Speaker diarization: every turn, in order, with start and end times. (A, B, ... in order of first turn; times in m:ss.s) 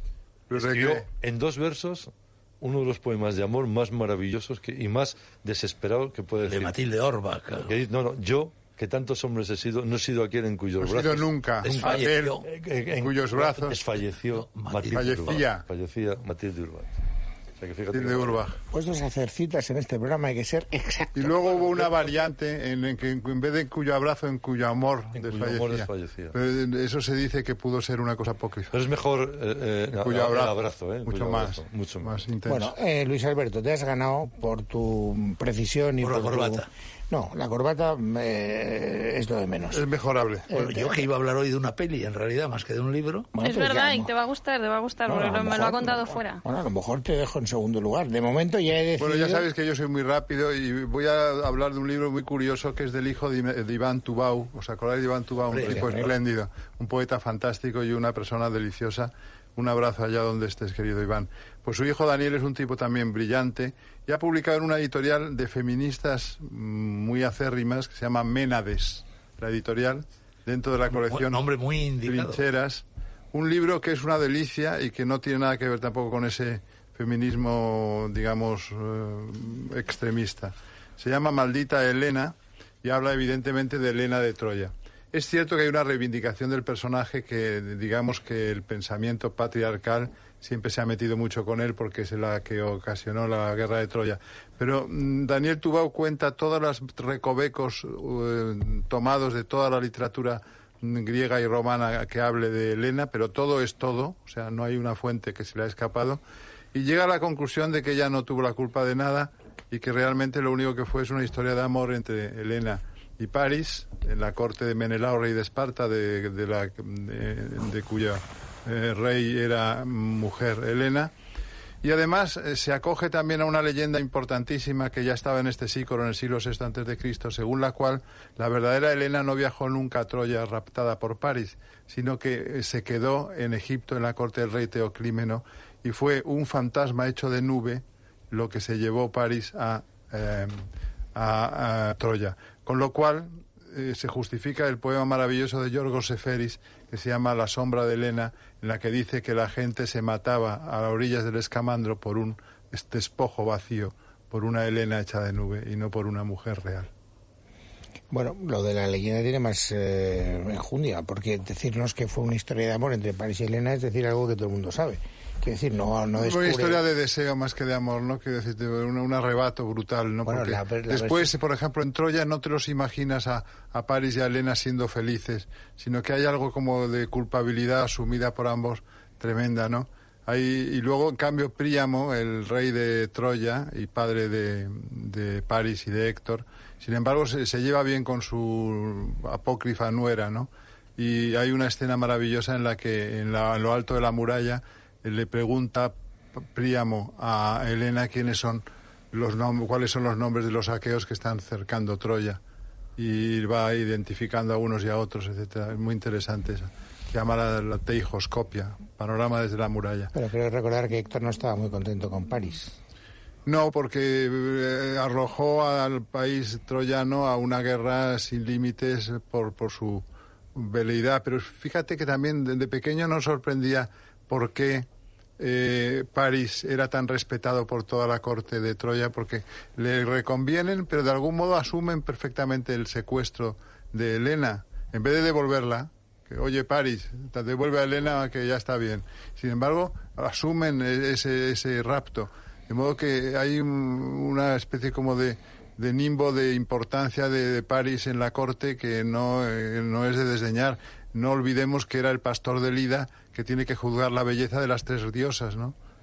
0:00.5-0:01.1 A
0:00.6-0:06.7 B
0:06.5-0:07.7 C
0:07.6-0:16.9 B
0:10.8-0:12.5 A
0:11.6-0:12.5 C
0:13.0-0:13.8 A
0:14.4-0:15.3 C
0:14.9-0:15.7 A
0:17.6-0:18.5 B
0:17.9-0:18.6 A
0:18.7-0:21.6 D
0:21.2-0:28.8 A
0:25.2-0:26.4 B
0:28.7-0:32.2 B
0:30.0-0:32.7 A
0:32.5-0:39.8 D
0:36.0-0:36.7 C
0:39.7-0:40.5 A
0:40.5-0:41.0 D
0:40.5-0:43.3 C
0:43.3-0:44.1 D
0:43.4-0:46.4 E
0:45.1-0:49.5 D
0:49.0-1:11.5 A
0:55.5-0:56.1 C
0:55.6-0:56.0 D
1:10.9-1:12.4 C
1:12.1-1:46.2 A
1:46.7-2:01.1 A
2:01.8-2:20.6 A
2:21.2-2:36.9 A
2:38.1-2:46.8 D
2:46.2-3:15.9 A
2:50.3-2:51.3 D
3:16.5-3:22.4 A
3:23.0-3:30.1 A
3:30.2-3:32.7 D
3:33.5-3:40.0 A
3:40.6-3:44.9 A
3:45.4-4:15.8 A